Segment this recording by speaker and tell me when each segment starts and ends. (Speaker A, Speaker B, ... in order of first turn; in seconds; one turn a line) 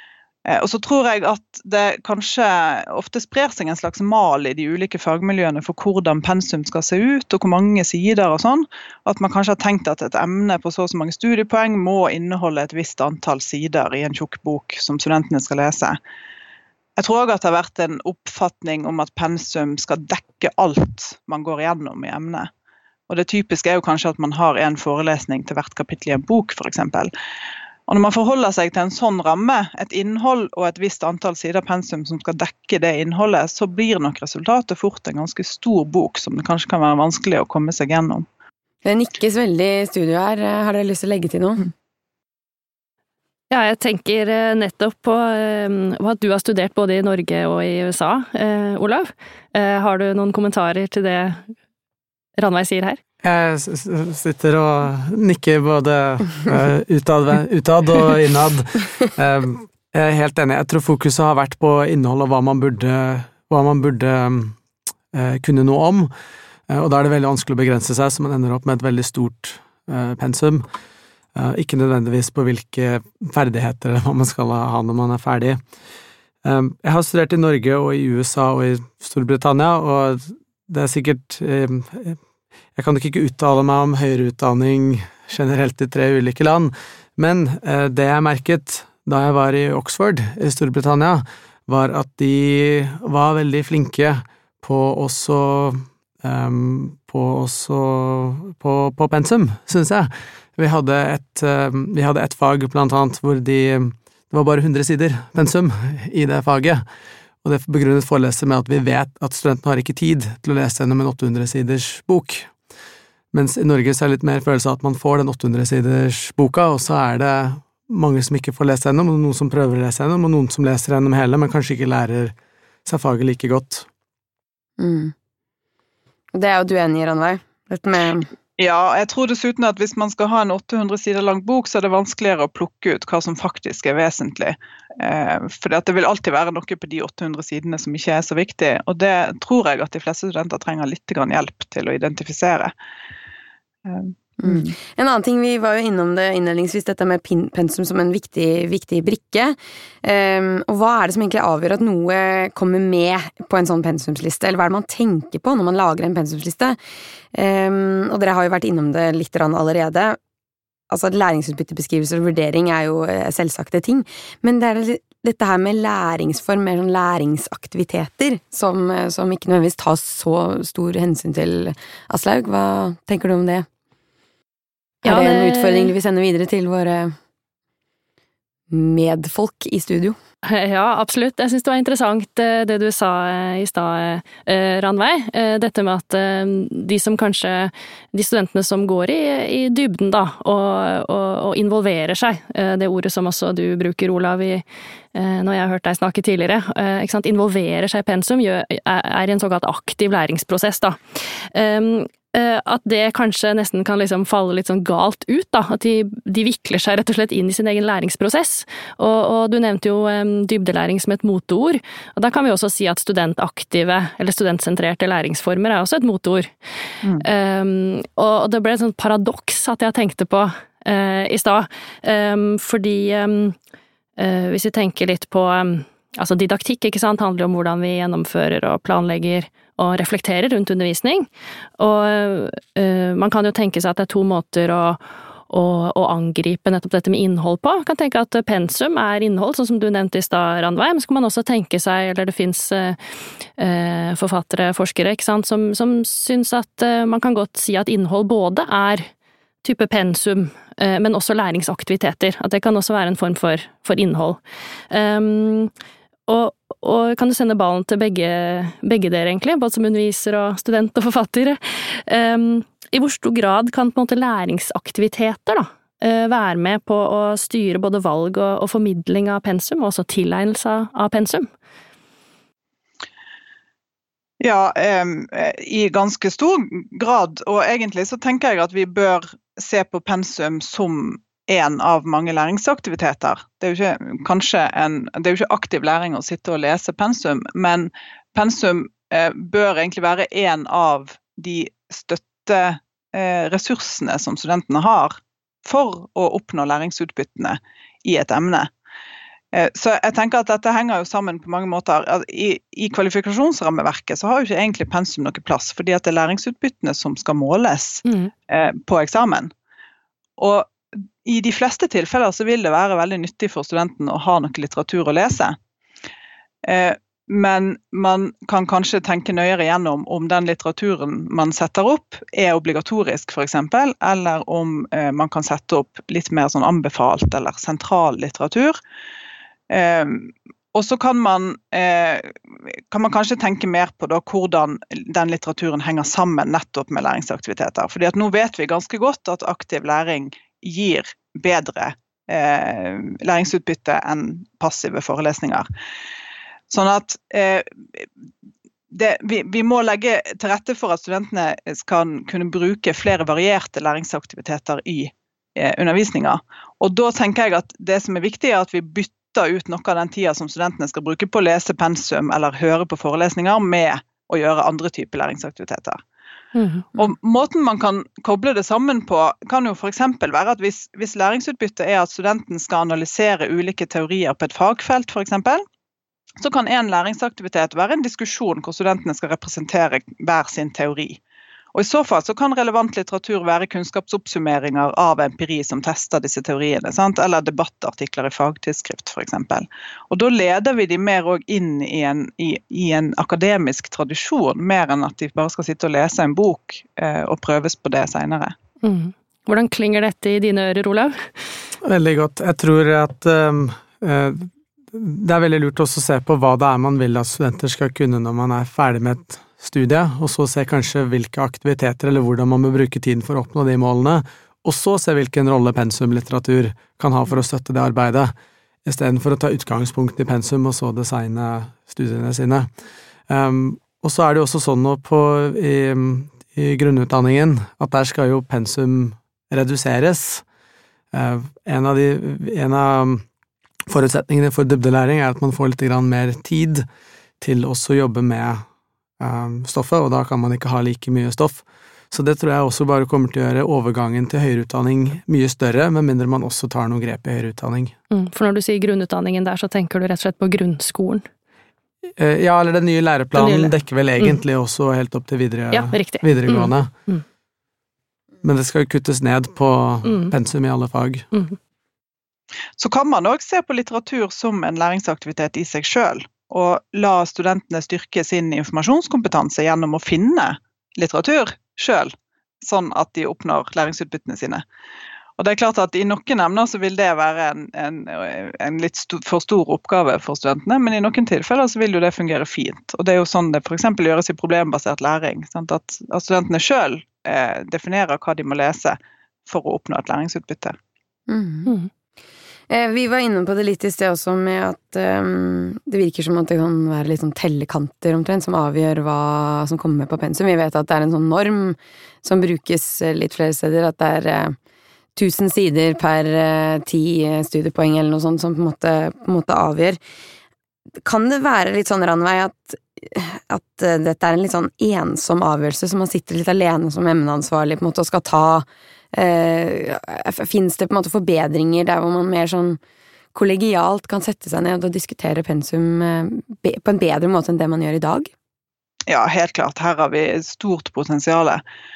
Speaker A: 0.5-16.0
Speaker A: 17.0-22.5
Speaker A: 23.1-27.1
Speaker A: 27.9-38.2
Speaker B: 38.8-41.7
Speaker C: 43.5-51.5
Speaker C: 52.4-53.0
Speaker D: 53.2-64.5
Speaker D: 65.1-66.1
Speaker D: 66.7-70.6
Speaker D: 71.3-75.6
Speaker D: 76.4-82.2
Speaker D: 82.8-106.8
Speaker D: 107.4-112.5
Speaker D: 113.3-122.3
Speaker D: 122.8-123.9
Speaker B: 124.8-125.1
Speaker B: 126.3-128.3
Speaker A: 128.6-142.7
Speaker A: 143.8-144.7
Speaker B: 144.4-156.8
Speaker B: 157.3-160.2
Speaker B: 160.9-173.7
Speaker B: 175.0-177.2
Speaker C: 175.0-175.9
Speaker B: 178.7-180.2
Speaker C: 180.5-216.6
Speaker C: 217.1-223.6
Speaker C: 224.2-243.0
Speaker C: 243.6-249.1
Speaker C: 249.6-255.7
Speaker C: 256.3-271.5
Speaker A: 274.4-298.7
Speaker A: 299.5-309.5
Speaker A: 310.4-315.6
Speaker A: 316.6-328.8
Speaker A: 329.7-345.6
Speaker A: 346.7-348.1
Speaker A: 348.9-366.0
Speaker C: 366.5-366.9
Speaker A: 366.9-375.6
Speaker A: 376.4-381.2
Speaker A: 381.7-398.5
Speaker C: 398.8-401.3
Speaker D: 401.8-418.3
Speaker D: 418.8-422.7
Speaker D: 423.3-430.4
Speaker D: 431.1-433.2
Speaker D: 433.9-436.8
Speaker D: 437.4-438.6
Speaker D: 439.2-447.9
Speaker C: 448.1-451.2
Speaker D: 452.2-456.9
Speaker C: 453.3-454.4
Speaker C: 455.7-457.2
Speaker D: 458.4-461.2
Speaker C: 460.0-460.3
Speaker A: 462.8-474.6
Speaker A: 475.4-490.8
Speaker B: 491.3-491.7
Speaker B: 492.7-504.6
Speaker B: 505.1-510.0
Speaker B: 511.0-522.8
Speaker B: 523.3-528.3
Speaker A: 529.1-531.6